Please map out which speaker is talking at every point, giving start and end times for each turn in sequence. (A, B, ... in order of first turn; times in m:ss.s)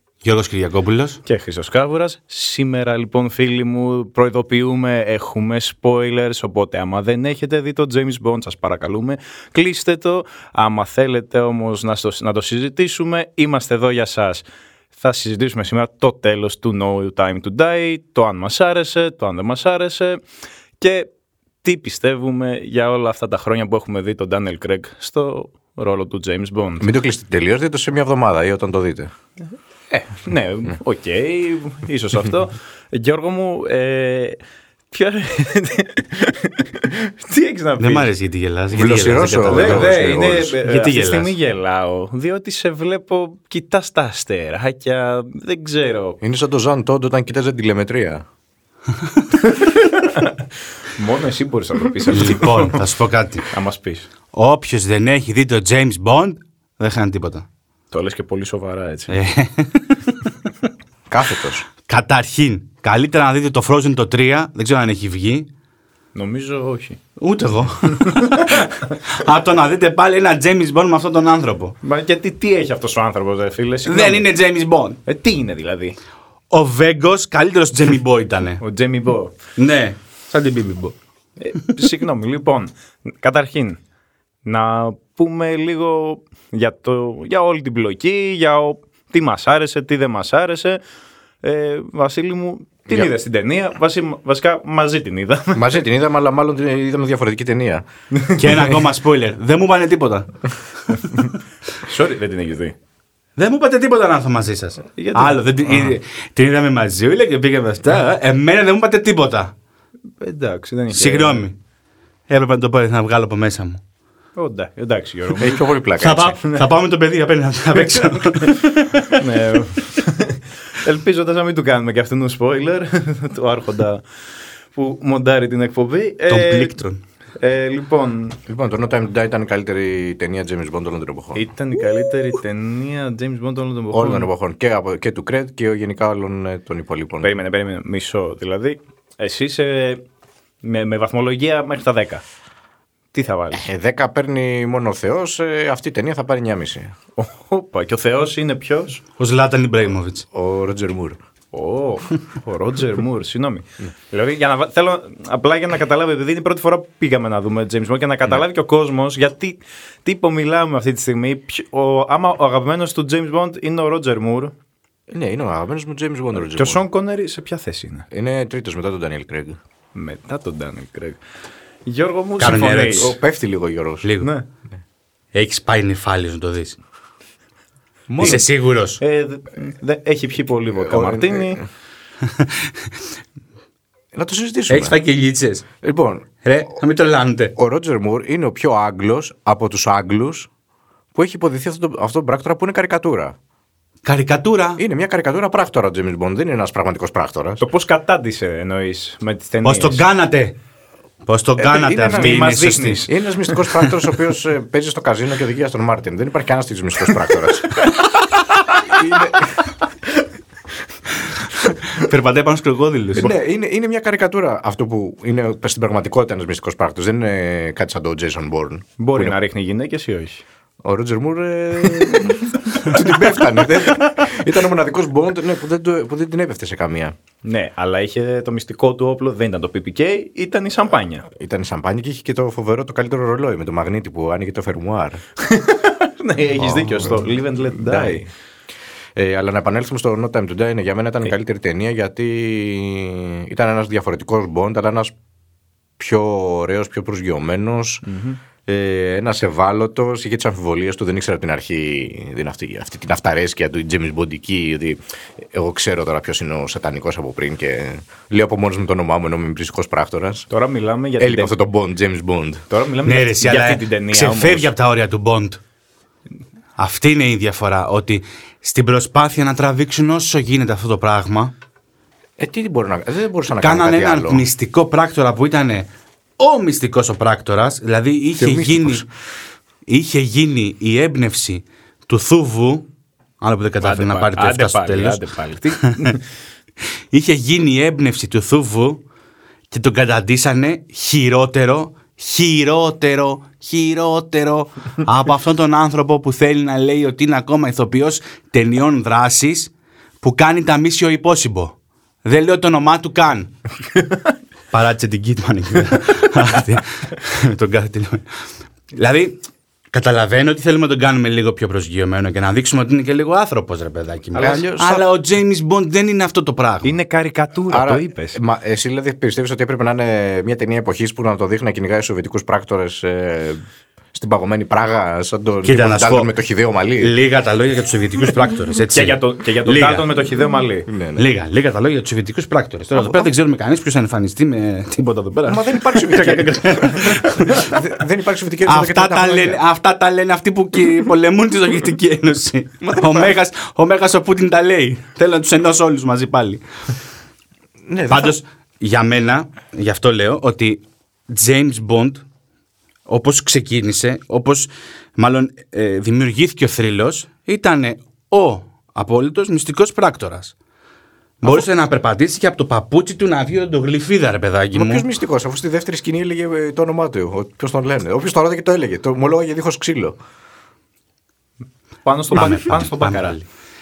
0:00.2-0:01.2 A
0:01.2-0:20.2 B
0:20.8-0:21.1 B
0:21.6-0:26.9 B
0:26.8-0:29.1 C
0:29.9-0:34.4 B
0:34.9-0:38.1 B
0:37.8-0:40.0 A
0:38.7-0:40.6 C
0:39.5-0:46.2 B
0:40.6-0:41.3 A
0:46.2-0:48.2 C
0:49.4-0:50.3 B
0:51.0-0:52.8 B
0:52.1-0:53.5 A
0:53.5-0:54.1 B
0:54.3-0:57.4 A
0:57.9-0:59.2 B
0:59.1-1:00.3 A
1:01.1-1:01.7 C
1:01.8-1:05.5 A
1:06.1-1:07.0 B
1:07.2-1:11.7 A
1:11.8-1:14.3 B
1:13.8-1:15.0 A
1:15.0-1:16.0 B
1:16.5-1:18.6 A
1:18.6-1:19.4 B
1:19.6-1:20.9 A
1:21.4-1:23.8 B
1:24.4-1:30.8 B
1:31.4-1:35.7 B
1:35.5-1:37.8 C
1:38.3-1:41.3 A
1:41.8-1:42.7 B
1:43.4-1:49.5 A
1:45.0-1:45.9 B
1:50.2-1:51.4 B
1:50.9-1:51.6 A
1:52.3-1:53.8 A
1:54.4-1:55.7 B
1:55.4-1:56.4 C
1:56.0-1:59.3 A
1:57.8-1:58.5 B
1:59.1-2:04.0 B
2:04.7-2:06.8 B
2:06.3-2:07.0 A
2:07.4-2:08.4 B
2:08.5-2:11.4 C
2:11.3-2:14.3 B
2:13.9-2:17.3 C
2:17.2-2:20.0 B
2:20.6-2:22.2 B
2:23.1-2:23.6 B
2:23.5-2:26.9 C
2:27.2-2:29.0 B
2:29.2-2:30.2 A
2:30.3-2:31.2 C
2:31.5-2:44.5 B
2:45.1-2:46.8 C
2:46.3-2:48.1 B
2:48.1-2:49.6 C
2:49.9-2:51.2 B
2:51.8-2:53.1 B
2:52.4-2:53.2 A
2:52.4-2:54.1 C
2:54.0-2:54.3 A
2:54.2-2:54.4 B
2:55.3-2:56.8 A
2:58.1-2:58.4 C
2:58.2-2:59.0 A
2:59.0-3:01.6 B
3:00.8-3:01.6 C
3:04.1-3:05.0 C
3:04.7-3:05.6 A
3:05.8-3:06.3 C
3:06.4-3:07.5 A
3:07.6-3:10.5 C
3:11.1-3:13.3 C
3:14.0-3:14.8 A
3:14.8-3:17.6 C
3:17.6-3:20.0 B
3:19.6-3:20.5 A
3:21.3-3:24.0 A
3:21.6-3:22.5 C
3:22.1-3:23.1 B
3:23.0-3:27.9 C
3:28.8-3:29.7 C
3:31.3-3:33.3 A
3:33.2-3:39.3 C
3:39.0-3:40.4 B
3:40.8-3:47.1 C
3:47.4-3:51.3 B
3:51.3-3:55.2 C
3:55.4-3:58.3 B
3:56.6-3:58.2 C
3:59.2-4:05.1 C
4:06.0-4:08.0 C
4:08.0-4:08.4 B
4:08.6-4:20.5 C
4:20.5-4:21.5 B
4:21.2-4:22.6 C
4:22.7-4:24.7 B
4:23.0-4:25.6 A
4:26.8-4:31.5 A
4:32.4-4:34.4 C
4:33.6-4:35.9 A
4:36.4-4:39.0 A
4:38.4-4:39.0 C
4:39.9-4:42.9 A
4:43.4-4:45.2 A
4:43.8-4:46.2 B
4:47.1-4:49.0 A
4:49.7-5:03.5 A
5:04.7-5:08.2 A
5:08.9-5:09.4 A
5:09.9-5:16.9 A
5:14.3-5:15.0 C
5:16.8-5:18.4 B
5:17.7-5:23.6 C
5:24.1-5:27.1 C
5:25.6-5:26.3 A
5:27.0-5:30.1 A
5:28.9-5:30.9 B
5:30.9-5:31.2 C
5:31.2-5:37.9 A
5:32.9-5:33.3 C
5:35.5-5:39.6 C
5:38.6-5:46.6 A
5:42.8-5:43.3 C
5:47.8-5:48.4 C
5:48.1-5:52.2 A
5:53.1-6:00.5 A
6:01.4-6:05.1 A
6:04.7-6:10.2 C
6:12.0-6:13.4 B
6:12.3-6:13.4 A